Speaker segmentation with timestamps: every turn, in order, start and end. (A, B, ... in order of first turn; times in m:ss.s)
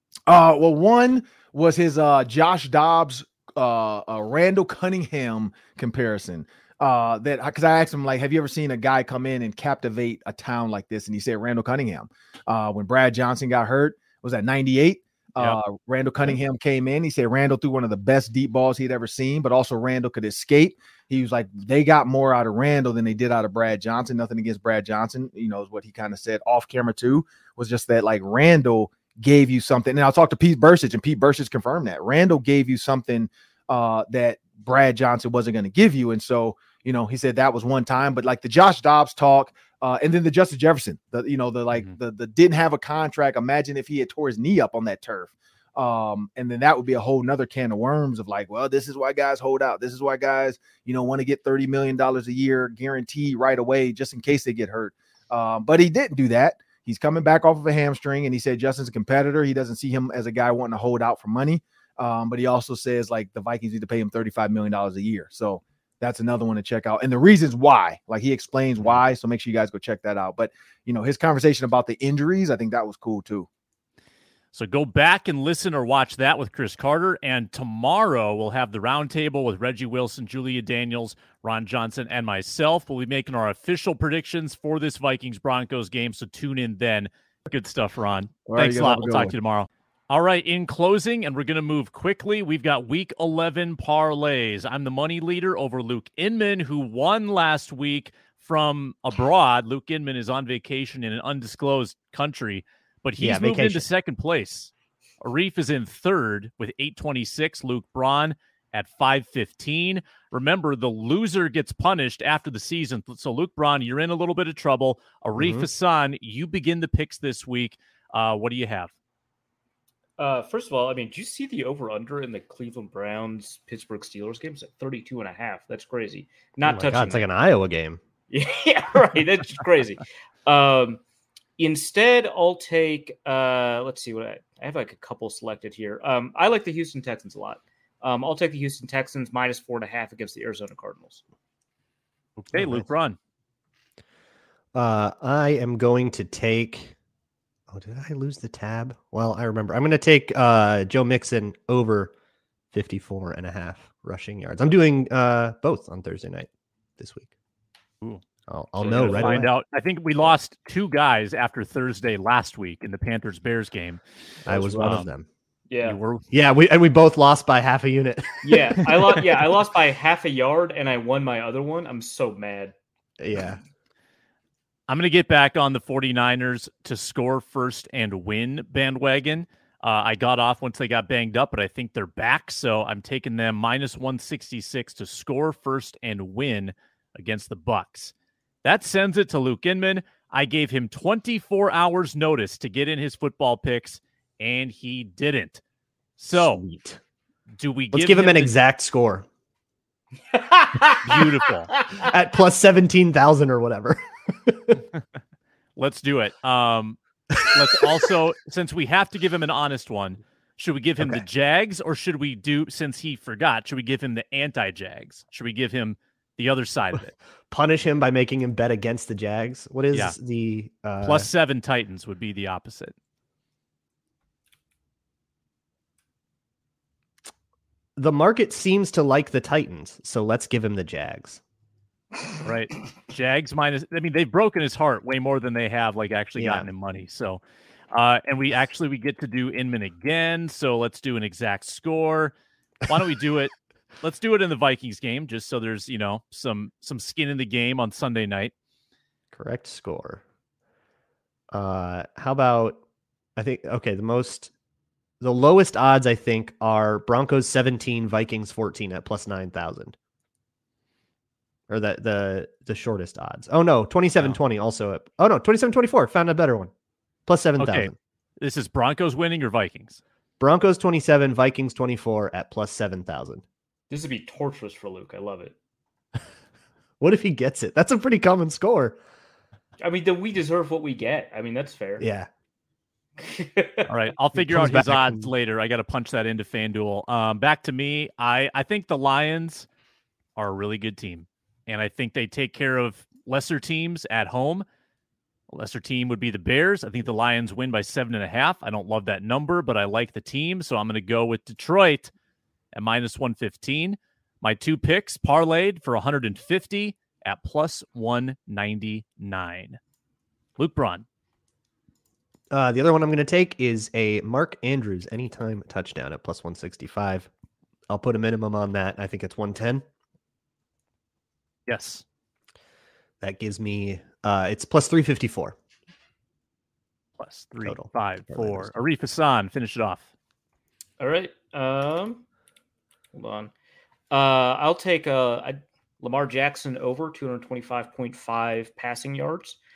0:00.3-1:13.5 A
1:14.5-1:58.9 B
1:28.5-1:29.3 A
1:43.2-1:43.9 C
1:55.4-1:55.7 C
2:00.2-2:07.2 D
2:06.6-2:08.0 C
2:08.3-2:11.0 D
2:11.6-2:21.2 D
2:22.4-2:23.2 B
2:22.5-2:22.9 C
2:24.7-2:27.0 C
2:27.7-2:32.1 C
2:32.7-2:37.3 C
2:38.5-2:39.5 C
2:38.8-2:39.5 D
2:38.9-2:45.1 B
2:44.5-2:45.3 C
2:45.7-2:46.0 D
2:45.8-2:46.2 B
2:46.3-2:49.3 C
2:48.4-2:52.7 D
2:53.2-2:53.6 C
2:54.9-3:15.6 B
3:16.2-3:16.6 B
3:16.3-3:17.0 C
3:17.6-3:18.5 B
3:17.9-3:19.3 C
3:20.3-3:22.1 D
3:21.0-3:21.7 B
3:22.0-3:24.8 C
3:25.8-3:37.2 B
3:27.3-3:27.8 C
3:31.0-3:31.2 C
3:37.5-3:41.3 C
3:41.0-3:43.0 B
3:48.0-3:51.4 C
3:52.4-3:57.4 B
3:56.4-3:56.7 C
3:57.9-4:02.3 B
4:02.9-4:08.5 B
4:09.3-4:10.2 C
4:11.5-4:12.8 C
4:13.4-4:14.5 C
4:15.2-4:20.0 C
4:21.7-4:26.7 C
4:27.3-4:27.9 C
4:27.6-4:30.0 B
4:30.4-4:33.4 C
4:33.9-4:35.5 D
4:37.0-4:39.0 C
4:39.8-4:42.1 D
4:42.0-4:42.3 C
4:43.2-4:43.9 D
4:43.9-4:49.7 B
4:44.4-4:45.3 C
4:50.4-4:54.7 B
4:55.5-5:02.1 B
5:02.7-5:09.8 B
5:10.6-5:11.1 B
5:12.5-5:17.3 C
5:17.9-5:19.8 C
5:21.7-5:22.0 B
5:23.2-5:25.6 C
5:27.2-5:30.1 B
5:27.6-5:28.7 C
5:31.0-5:32.2 D
5:33.1-5:33.5 D
5:34.1-5:39.6 D